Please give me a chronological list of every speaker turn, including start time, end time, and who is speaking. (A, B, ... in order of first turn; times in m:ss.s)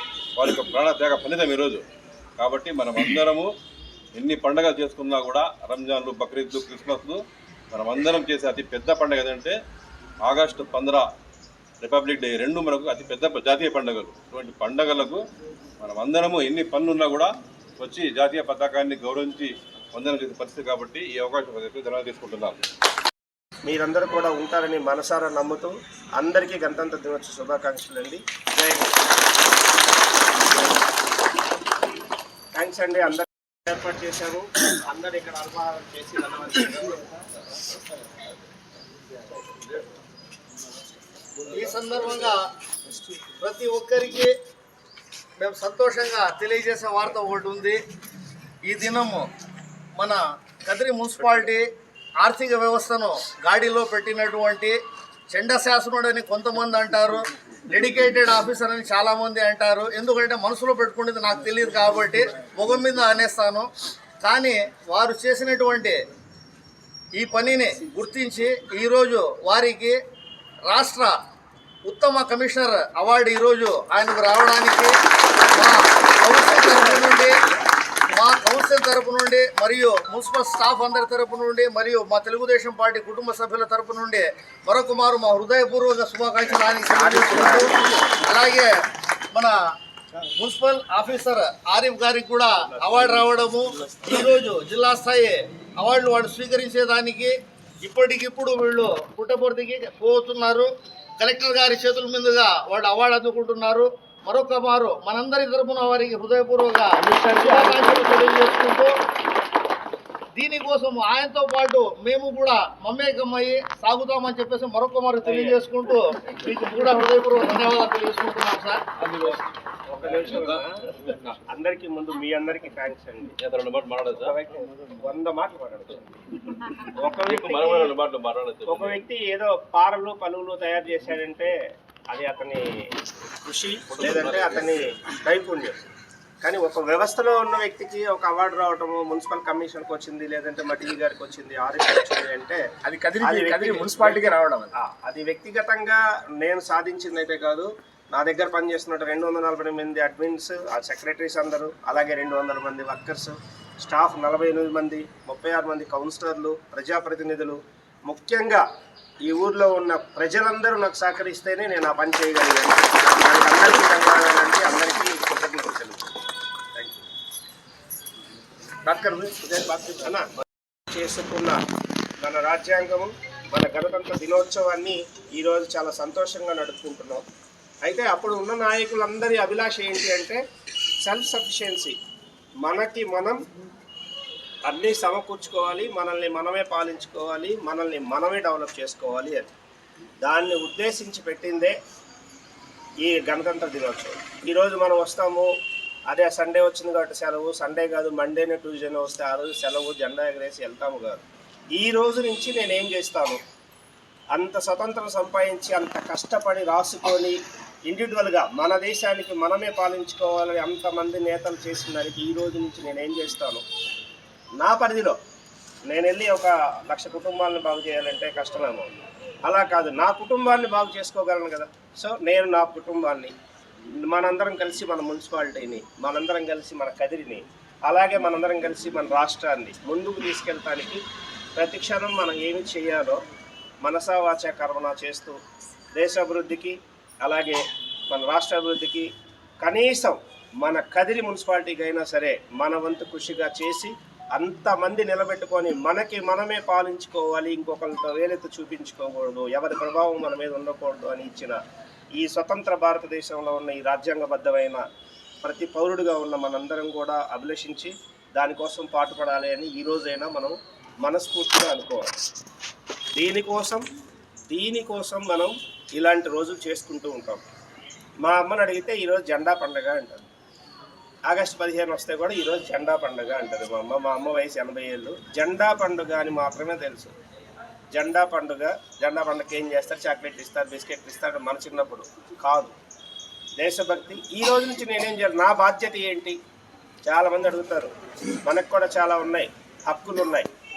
0:00.4-0:01.8 A
0:02.4-0:03.5 A
0:04.2-0:07.2 A
0:07.7-0:09.6 A
0:10.2-0:11.1 A
0:11.8-0:15.2 A
0:15.8-0:22.6 A
0:23.7-0:29.0 B
0:32.5-0:37.1 B
0:41.5-0:42.4 C
0:43.2-0:44.3 C
0:45.4-0:47.8 C
0:48.6-0:49.3 C
0:50.0-0:51.7 C
0:52.2-0:54.8 C
0:55.3-1:03.7 C
1:04.2-1:06.0 C
1:07.2-1:10.0 C
1:10.7-1:11.2 C
1:11.9-1:14.9 C
1:15.5-1:17.3 C
1:18.1-1:28.7 C
1:27.1-1:27.7 D
1:30.2-1:49.0 C
1:47.0-1:48.0 B
1:50.4-1:58.9 C
1:55.3-1:55.6 B
1:59.9-2:03.3 B
2:00.1-2:01.4 A
2:03.4-2:04.3 A
2:04.2-2:06.1 B
2:06.9-2:08.0 B
2:07.3-2:09.0 A
2:08.7-2:11.5 B
2:12.1-2:12.7 B
2:13.4-2:15.8 B
2:14.0-2:14.8 A
2:16.4-2:22.6 B
2:22.8-2:24.7 D
2:23.2-2:38.6 B
2:39.2-2:46.1 B
2:46.8-2:47.0 B
2:48.8-2:50.3 B
2:50.9-2:51.6 B
2:52.2-2:57.2 B
2:57.8-3:00.4 B
3:01.0-3:02.0 B
3:02.6-3:03.4 B
3:04.6-3:09.5 B
3:10.2-3:11.8 B
3:13.0-3:15.5 B
3:16.1-3:21.2 B
3:21.8-3:23.4 B
3:24.3-3:27.4 B
3:27.9-3:33.6 B
3:34.6-3:35.2 B
3:35.9-3:38.9 B
3:39.5-3:43.3 B
3:44.1-3:51.0 B
3:51.6-3:53.2 B
3:53.8-3:55.4 B
3:56.0-3:59.1 B
3:59.6-4:11.6 B
4:12.2-4:14.8 B
4:15.4-4:22.1 B
4:23.2-4:23.8 B
4:24.5-4:27.4 B
4:28.2-4:30.2 B
4:31.3-4:37.1 B
4:37.9-4:42.7 B
4:43.6-4:46.4 B
4:47.1-4:47.9 B
4:48.5-4:50.5 B